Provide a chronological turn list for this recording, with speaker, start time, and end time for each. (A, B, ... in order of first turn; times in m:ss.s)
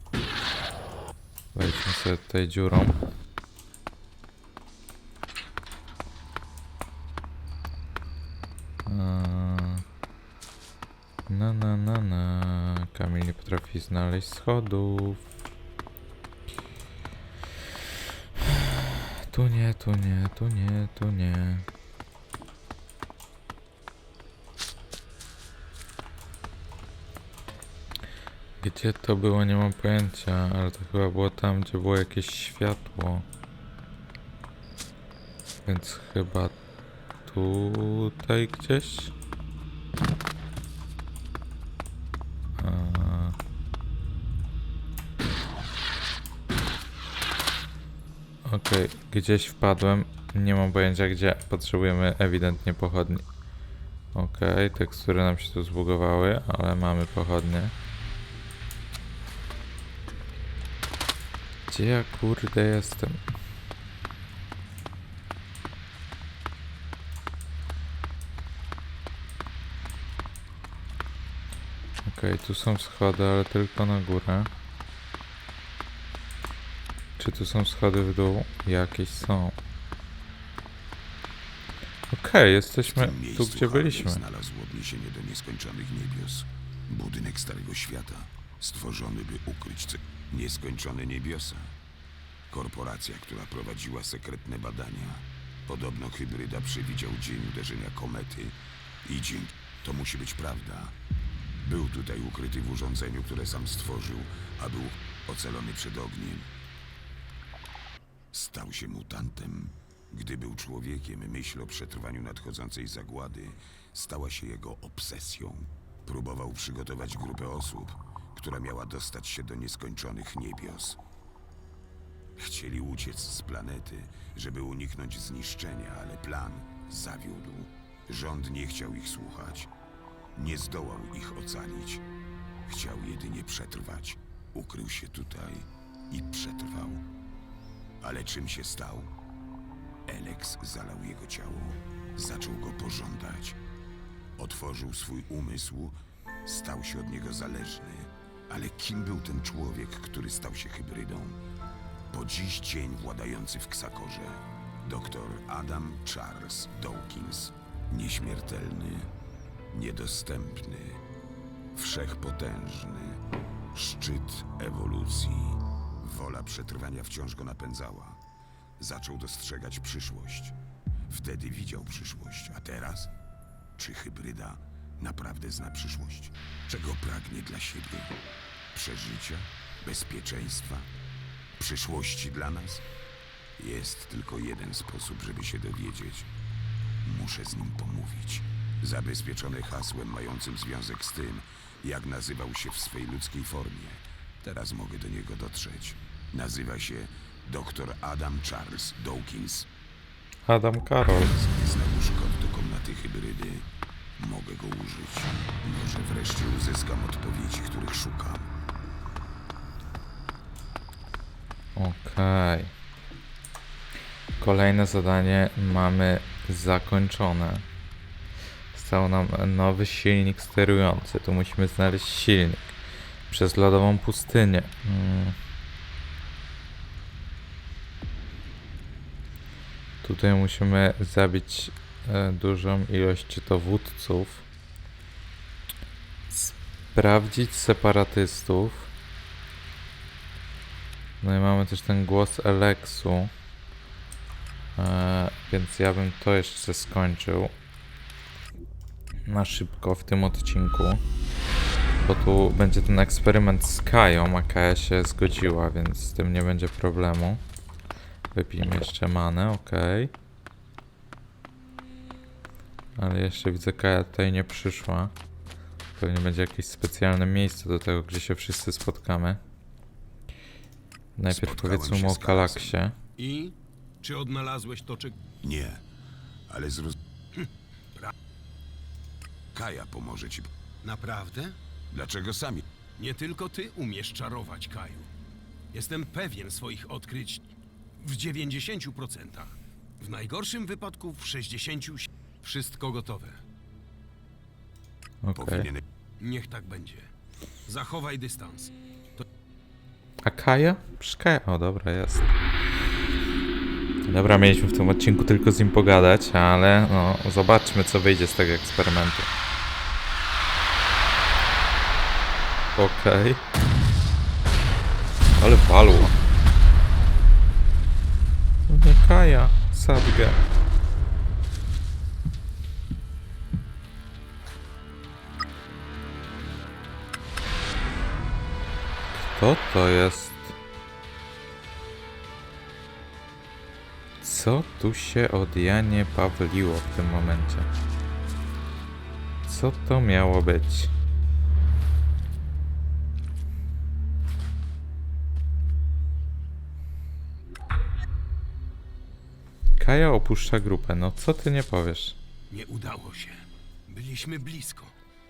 0:01.6-0:03.0 A
0:08.9-0:09.8 A
0:11.3-0:15.2 A
0:18.4-0:21.7 A
0:28.6-0:33.3 A
0:35.7-0:36.6 A
0:37.2-0:39.1 A
0:42.6-0:43.4 A
0:48.4-0:53.2 A
0:54.1-0:57.7 A
1:01.7-1:03.2 A
1:12.0-1:14.5 A
1:17.2-1:19.6 A
1:22.1-1:24.2 A
1:22.9-1:31.7 B
1:32.5-1:40.9 B
1:41.6-1:46.5 B
1:48.3-2:01.0 B
2:02.4-2:09.7 B
2:10.4-2:12.0 B
2:12.7-2:17.0 B
2:18.0-2:19.1 B
2:20.1-2:23.6 B
2:24.4-2:31.4 B
2:32.1-2:39.1 B
2:39.7-2:41.0 B
2:41.8-2:43.2 B
2:43.7-2:48.2 B
2:48.8-2:50.6 B
2:51.1-2:53.1 B
2:53.8-2:58.2 B
2:58.7-3:00.9 B
3:01.6-3:02.8 B
3:03.6-3:06.3 B
3:07.0-3:19.7 B
3:20.5-3:21.3 A
3:21.1-3:23.6 B
3:24.2-3:28.5 B
3:31.8-3:32.7 A
3:34.4-3:37.7 A
3:38.7-3:42.7 A
3:43.3-3:45.4 A
3:50.0-3:54.4 A
3:56.3-3:58.9 A
4:01.2-4:03.3 A
4:04.8-4:07.5 A
4:09.3-4:11.0 A
4:12.0-4:17.4 A
4:18.3-4:20.1 A
4:23.0-4:25.1 A
4:26.0-4:29.4 A
4:31.2-4:33.0 A
4:31.3-4:32.8 B
4:33.2-4:35.2 C
4:35.4-4:35.8 B
4:36.5-4:37.0 B
4:37.3-4:38.1 C
4:39.5-4:40.5 B
4:40.8-4:41.6 C
4:41.9-4:42.7 B
4:43.0-4:45.1 C
4:45.7-4:53.4 C
4:55.2-4:55.7 A
4:55.4-4:55.8 B
4:56.2-4:57.1 C
4:57.7-4:59.2 C
5:00.2-5:02.3 A
5:04.1-5:09.3 A
5:12.8-5:13.4 A
5:15.4-5:16.2 A
5:18.7-5:20.4 A
5:29.2-5:30.6 A
5:34.2-5:37.7 A
5:39.5-5:40.9 A
5:49.8-5:52.2 A
5:52.5-5:54.9 C